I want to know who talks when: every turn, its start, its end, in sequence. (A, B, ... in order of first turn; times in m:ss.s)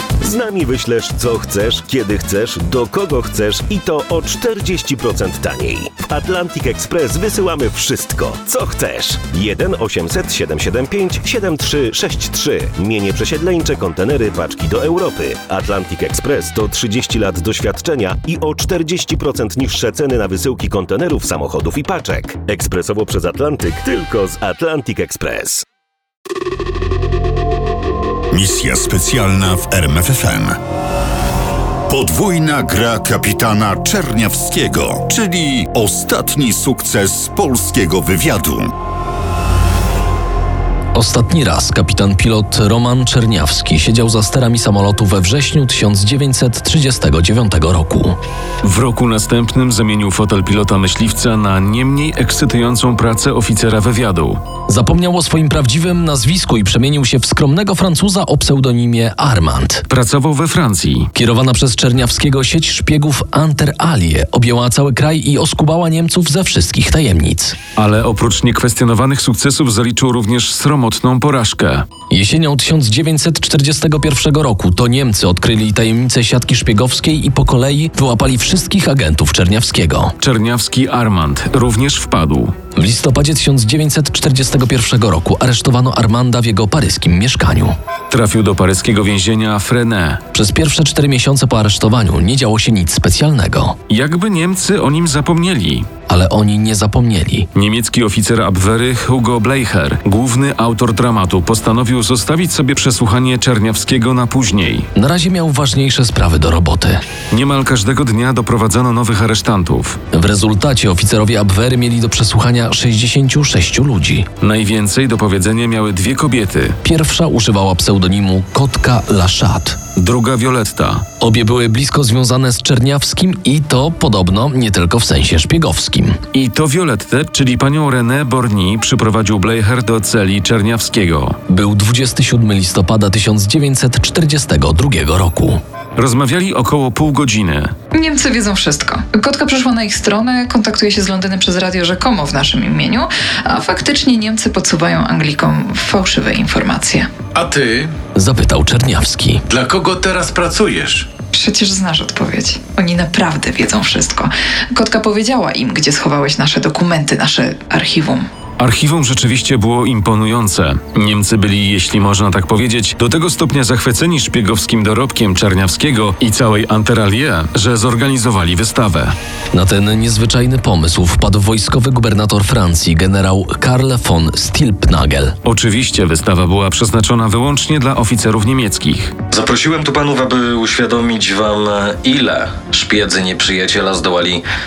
0:00.2-0:25.6 A
0:28.3-0:30.6 B
0:31.9-0:38.7 B
0:40.9-0:48.2 C
0:48.6-0:54.5 D
0:54.7-0:59.9 C
0:59.9-1:01.1 D
1:01.1-1:07.6 C
1:07.8-1:11.9 D
1:12.1-1:20.2 C
1:20.2-1:22.6 D
1:22.8-1:27.8 C
1:28.1-1:30.2 D
1:30.3-1:33.8 C
1:33.9-1:35.9 D
1:36.1-1:37.5 C
1:37.6-1:44.9 D
1:45.0-1:47.0 C
1:47.3-1:50.0 D
1:50.1-1:54.3 C
1:54.4-1:56.8 D
1:56.8-1:59.8 C
2:00.0-2:01.1 D
2:01.2-2:06.2 C
2:06.3-2:11.4 D
2:11.5-2:15.6 C
2:16.0-2:17.7 D
2:17.9-2:27.1 E
2:27.4-2:27.9 F
2:28.2-2:29.4 C
2:29.5-2:31.1 F
2:31.3-2:38.3 E
2:38.6-2:49.2 D
2:49.5-2:55.4 C
2:55.4-2:59.2 D
2:59.3-3:04.4 G